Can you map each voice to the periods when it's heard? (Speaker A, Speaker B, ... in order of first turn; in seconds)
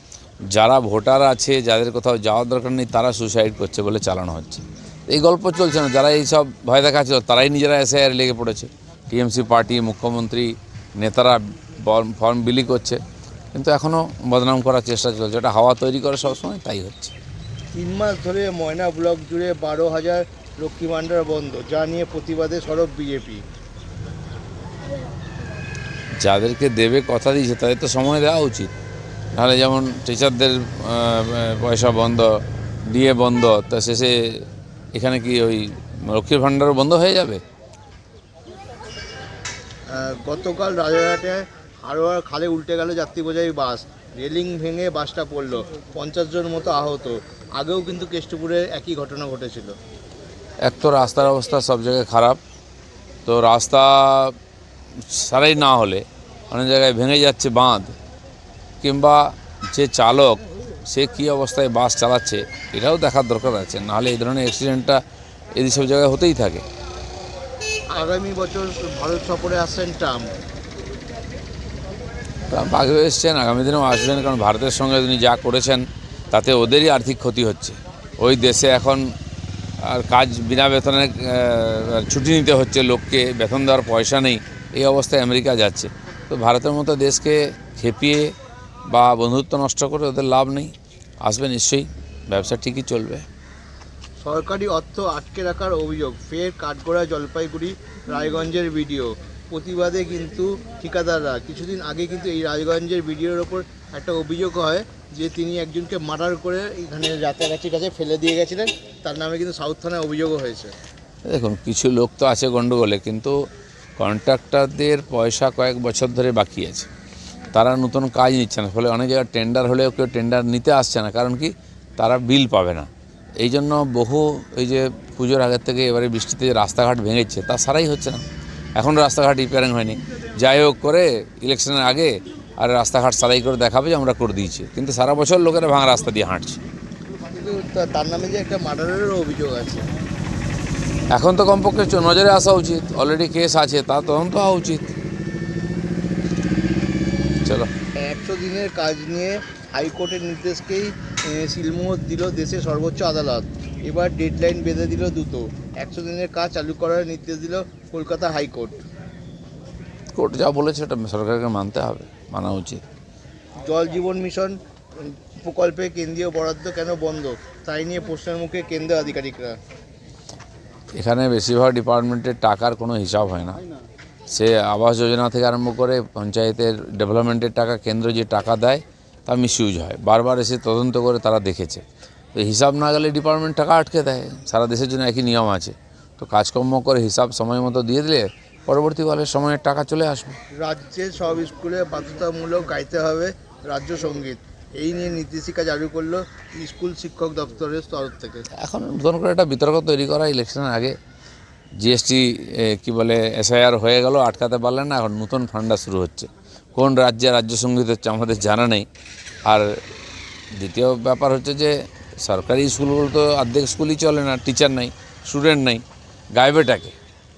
Speaker A: 0.5-13.0, 13.5-17.1, 26.2-28.7, 29.3-37.4, 50.6-52.4, 53.2-54.4, 55.0-57.9, 58.8-65.0, 65.5-66.6, 72.5-79.1, 79.8-88.3, 88.9-93.2, 111.2-113.4, 114.0-116.9, 117.5-128.2, 128.8-136.6, 141.1-144.9, 147.4-147.7, 160.1-162.8, 170.9-173.6, 174.3-190.4, 198.5-200.9, 201.8-208.9, 209.4-209.7, 210.6-215.8, 216.3-216.9
Speaker B: 17.7-23.4, 39.9-49.7, 67.9-70.3, 94.2-110.7, 137.3-139.9, 148.0-158.8, 163.6-169.6, 190.5-198.5